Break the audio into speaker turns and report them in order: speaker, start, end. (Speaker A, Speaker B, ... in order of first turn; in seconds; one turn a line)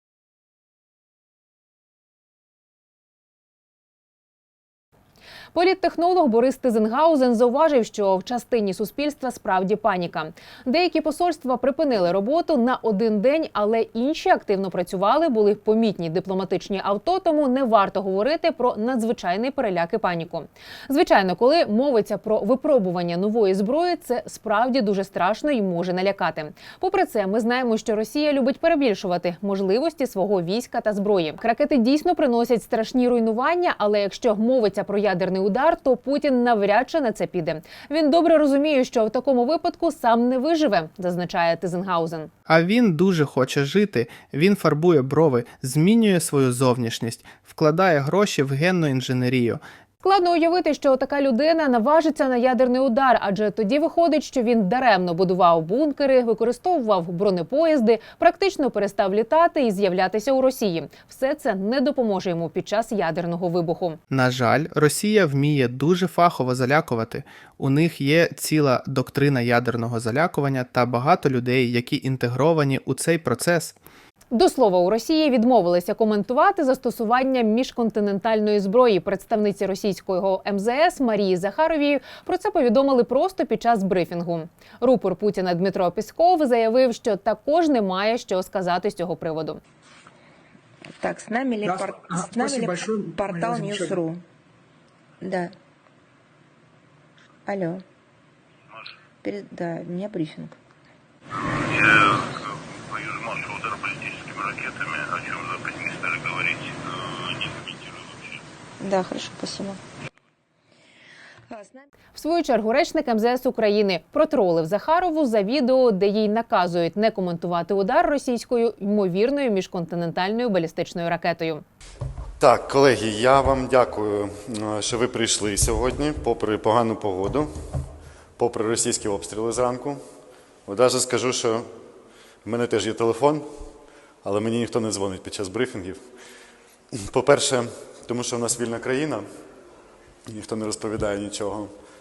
Speaker A: 5.5-42.3
Speaker B: 42.5-49.3
Speaker A: 50.0-64.0
Speaker B: 64.1-73.7
Speaker A: 74.3-89.6
Speaker C: 91.0-94.2
Speaker C: 95.2-95.5
Speaker C: 97.5-97.8
Speaker C: 99.2-100.5
Speaker D: 101.6-102.2
Speaker D: 102.9-106.7
Speaker D: 107.2-108.1
Speaker C: 108.8-109.8
Speaker C: 111.5-111.8
Speaker A: 112.2-121.6
Speaker E: 122.4-127.5
Speaker E: 128.4-130.0
Speaker E: 130.7-131.7
Speaker E: 132.4-136.1
Speaker E: 136.9-139.3
Speaker E: 140.3-141.7